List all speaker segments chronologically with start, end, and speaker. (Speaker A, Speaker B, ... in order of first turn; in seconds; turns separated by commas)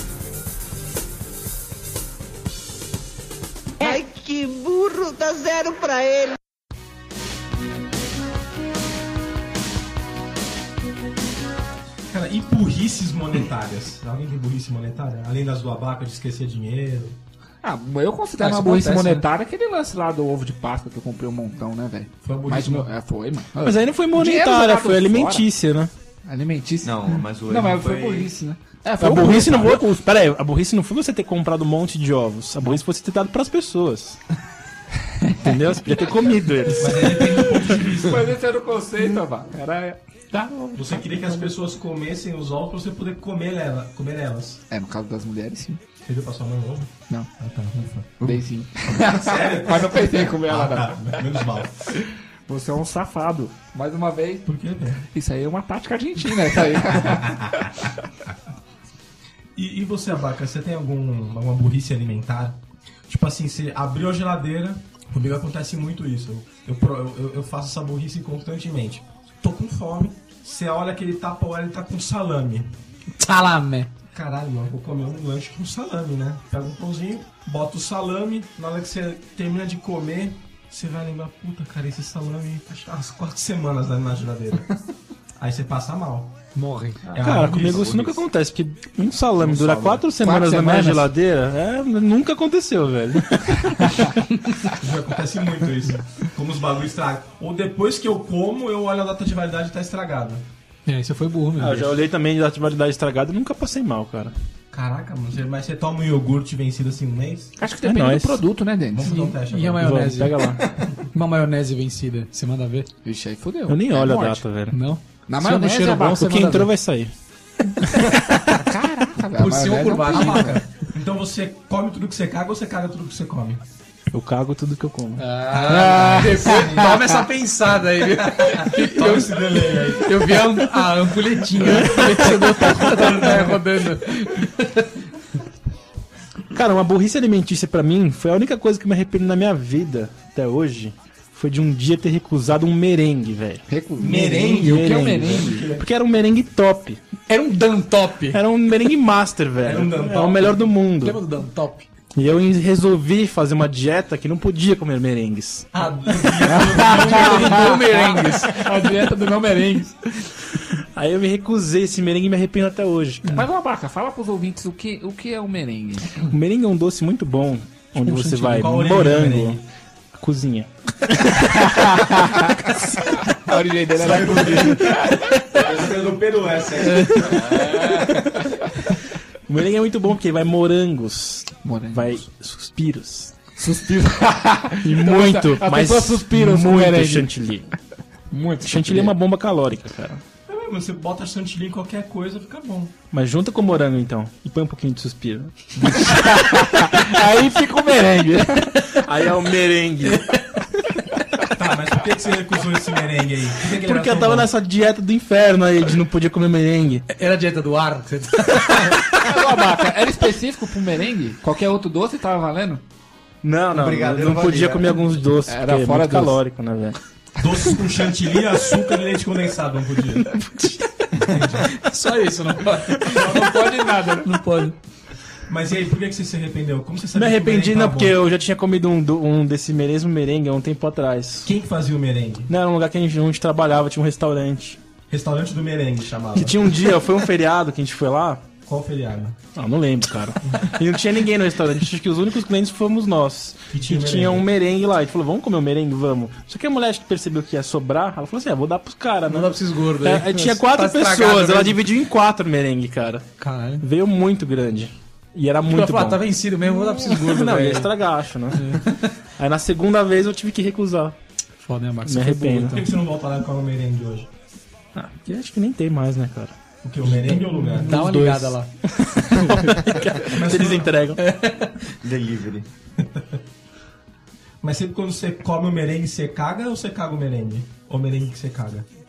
Speaker A: 3.8-6.4, Speaker B: 12.1-17.2, Speaker C: 17.6-25.5, Speaker D: 18.4-19.2, Speaker B: 22.2-22.9, Speaker D: 23.6-25.9, Speaker C: 26.2-30.0, Speaker E: 26.8-28.3, Speaker D: 29.0-34.2, Speaker C: 35.2-36.0, Speaker D: 35.3-37.8, Speaker B: 36.8-38.4, Speaker C: 37.2-41.0, Speaker B: 40.7-44.6, Speaker C: 44.7-45.8, Speaker B: 46.0-51.7, Speaker C: 48.2-51.2, Speaker C: 51.9-54.5, Speaker B: 54.5-55.0, Speaker C: 55.1-57.9, Speaker B: 57.0-57.7, Speaker B: 59.5-72.7, Speaker F: 73.2-73.9, Speaker B: 74.1-84.7, Speaker B: 85.4-86.3, Speaker F: 86.5-87.2, Speaker B: 87.0-88.2, Speaker D: 87.2-94.2, Speaker B: 89.4-90.0, Speaker C: 90.2-91.1, Speaker B: 94.7-100.5, Speaker F: 100.8-101.9, Speaker D: 101.6-104.3, Speaker B: 104.7-107.5, Speaker C: 107.6-109.2, Speaker D: 107.8-108.4, Speaker B: 108.9-109.9, Speaker F: 109.0-110.5, Speaker D: 109.7-110.6, Speaker B: 110.7-111.1, Speaker F: 111.1-112.9, Speaker C: 113.0-114.4, Speaker D: 113.7-114.8, Speaker F: 114.7-116.7, Speaker C: 115.3-116.4, Speaker D: 115.9-117.1, Speaker C: 118.3-120.6, Speaker F: 119.3-120.6, Speaker B: 119.4-123.6, Speaker D: 124.1-125.3, Speaker F: 125.2-135.0, Speaker C: 125.5-127.0, Speaker B: 126.5-126.9, Speaker B: 128.3-130.4, Speaker D: 131.6-132.6, Speaker B: 131.7-132.2, Speaker C: 132.5-132.9, Speaker B: 132.7-133.6, Speaker D: 136.5-143.7, Speaker C: 143.7-145.7, Speaker B: 144.0-145.8, Speaker D: 144.4-147.0, Speaker F: 147.3-148.4, Speaker D: 148.3-151.2, Speaker B: 149.6-150.5, Speaker F: 151.0-151.9, Speaker D: 152.1-155.7, Speaker B: 155.7-157.8, Speaker C: 156.4-160.0, Speaker F: 156.8-159.1, Speaker D: 160.7-163.4, Speaker C: 163.3-166.2, Speaker D: 166.3-169.6, Speaker F: 168.0-168.6, Speaker B: 168.5-169.6, Speaker D: 170.2-171.8, Speaker C: 171.5-175.6, Speaker B: 173.9-175.0, Speaker B: 175.5-177.7, Speaker D: 176.9-177.6, Speaker C: 177.4-178.7, Speaker D: 179.5-183.3, Speaker C: 181.6-182.2, Speaker C: 183.6-187.3, Speaker D: 184.8-187.7, Speaker C: 188.3-189.1, Speaker D: 188.6-190.2, Speaker B: 190.5-192.9, Speaker D: 193.1-195.7, Speaker C: 195.8-198.9, Speaker D: 198.9-200.3, Speaker B: 201.5-204.5, Speaker D: 203.6-207.0, Speaker F: 207.1-209.3, Speaker C: 209.2-212.8, Speaker D: 213.4-217.0, Speaker E: 213.7-215.2, Speaker C: 215.5-216.4, Speaker B: 217.4-220.4, Speaker D: 220.3-220.8, Speaker B: 221.2-221.7, Speaker F: 221.7-224.8, Speaker C: 223.1-224.3, Speaker B: 225.5-228.2, Speaker D: 227.1-231.5, Speaker B: 231.4-232.5, Speaker D: 232.5-234.8, Speaker B: 235.1-236.7, Speaker D: 236.3-238.5, Speaker B: 238.7-239.4, Speaker D: 239.5-261.1, Speaker B: 243.7-244.4, Speaker F: 249.3-251.8, Speaker F: 253.4-253.8, Speaker F: 255.6-257.9, Speaker F: 258.5-259.1, Speaker F: 261.6-263.0, Speaker D: 262.0-262.8, Speaker B: 262.6-264.3, Speaker D: 264.9-266.6, Speaker B: 266.8-268.0, Speaker F: 267.2-268.7, Speaker D: 267.8-271.2, Speaker F: 269.2-270.1, Speaker B: 270.3-271.0, Speaker F: 271.2-271.8, Speaker E: 272.0-272.7, Speaker B: 273.0-273.4, Speaker B: 274.6-278.9